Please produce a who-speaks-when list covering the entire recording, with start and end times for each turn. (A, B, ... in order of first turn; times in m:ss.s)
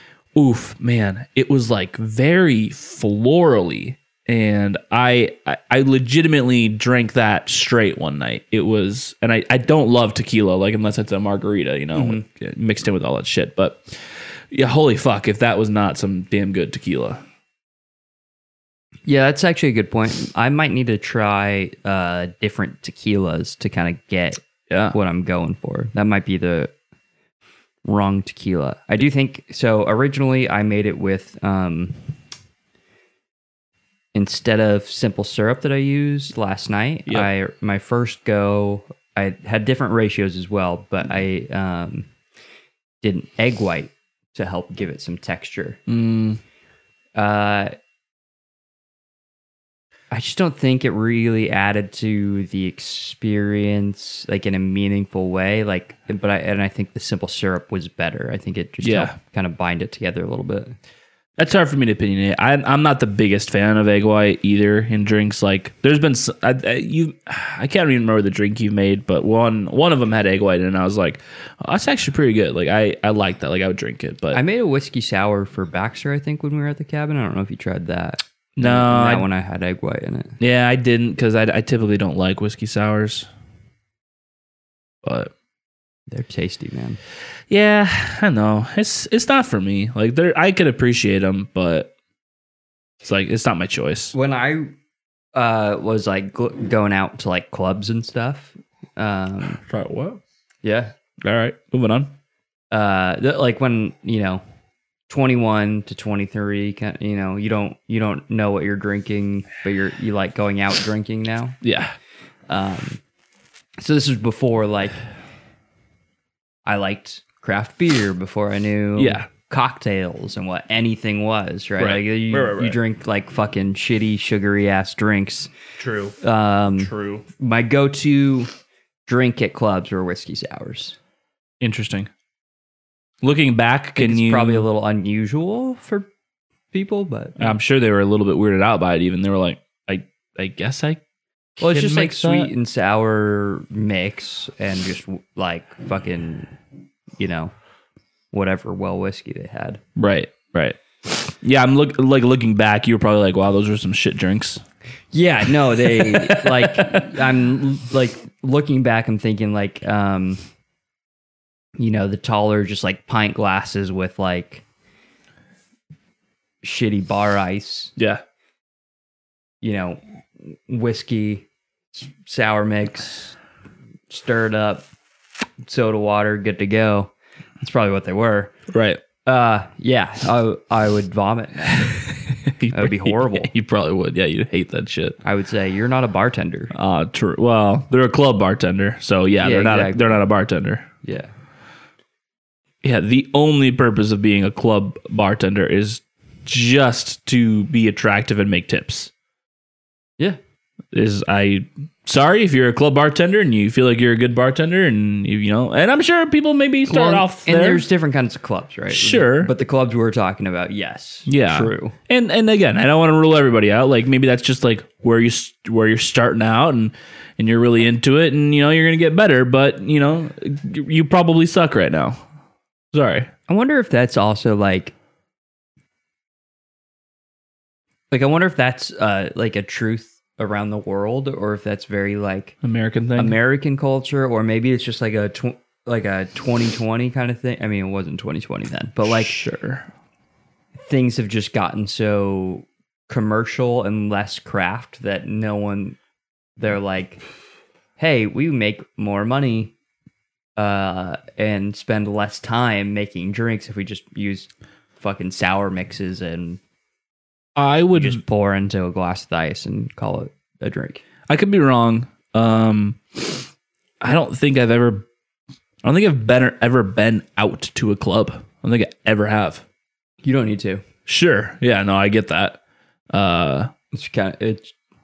0:00.4-0:17.2 A
0:11.9-0:12.2 B
0:19.1-0:26.7 B
0:24.7-0:25.0 A
0:27.8-0:32.0 B
0:34.2-0:42.1 B
0:43.0-0:45.8 B
0:45.9-0:46.4 A
0:47.2-0:47.7 B
0:50.1-1:00.8 B
0:58.8-0:59.2 A
1:01.4-1:14.4 A
1:14.3-1:20.4 B
1:18.6-1:19.3 A
1:20.4-1:23.3 A
1:25.0-1:25.3 A
1:26.1-1:27.0 B
1:27.5-1:31.9 A
1:33.0-1:34.1 A
1:34.1-1:34.7 B
1:35.4-1:39.6 B
1:39.6-1:40.2 A
1:40.6-1:40.9 B
1:41.2-1:42.1 A
1:42.7-1:44.4 B
1:45.1-1:51.6 B
1:51.6-1:52.0 A
1:52.5-1:53.0 B
1:53.8-1:55.0 B
1:56.6-2:05.5 B
1:59.0-1:59.3 A
2:01.8-2:02.8 A
2:05.8-2:06.2 A
2:06.2-2:08.5 B
2:06.8-2:07.2 A
2:09.1-2:11.0 B
2:11.6-2:12.1 A
2:13.2-2:14.7 A
2:14.0-2:16.1 B
2:16.7-2:17.6 B
2:17.4-2:21.0 A
2:21.6-2:22.5 A
2:21.6-2:26.5 B
2:27.2-2:27.5 B
2:28.3-2:29.8 B
2:30.0-2:34.6 A
2:35.1-2:40.4 B
2:35.8-2:37.1 A
2:41.8-2:44.6 B
2:46.6-2:47.9 B
2:48.0-2:48.2 A
2:49.6-2:53.4 B
2:54.1-2:54.9 B
2:55.6-2:58.5 B
2:58.7-2:59.0 A
2:59.2-3:02.0 B
3:01.9-3:05.2 A
3:02.7-3:03.5 B
3:05.2-3:06.7 B
3:06.7-3:10.9 A
3:09.4-3:10.2 B
3:11.0-3:11.3 B
3:12.8-3:19.1 A
3:20.9-3:27.9 A
3:26.9-3:32.0 B
3:28.9-3:29.5 A
3:31.3-3:42.2 A
3:42.9-3:43.3 A
3:43.5-3:44.9 B
3:48.1-3:52.6 B
3:52.6-3:53.4 A
3:53.2-3:59.4 B
3:59.0-3:59.9 A
4:00.8-4:06.0 B
4:06.6-4:07.2 B
4:08.0-4:09.7 B
4:10.6-4:16.6 B
4:17.6-4:18.2 A
4:17.9-4:21.0 B
4:21.3-4:23.5 A
4:24.0-4:25.1 A
4:25.8-4:29.6 A
4:30.2-4:30.8 B
4:31.1-4:32.6 A
4:33.1-4:33.7 A
4:33.9-4:34.7 B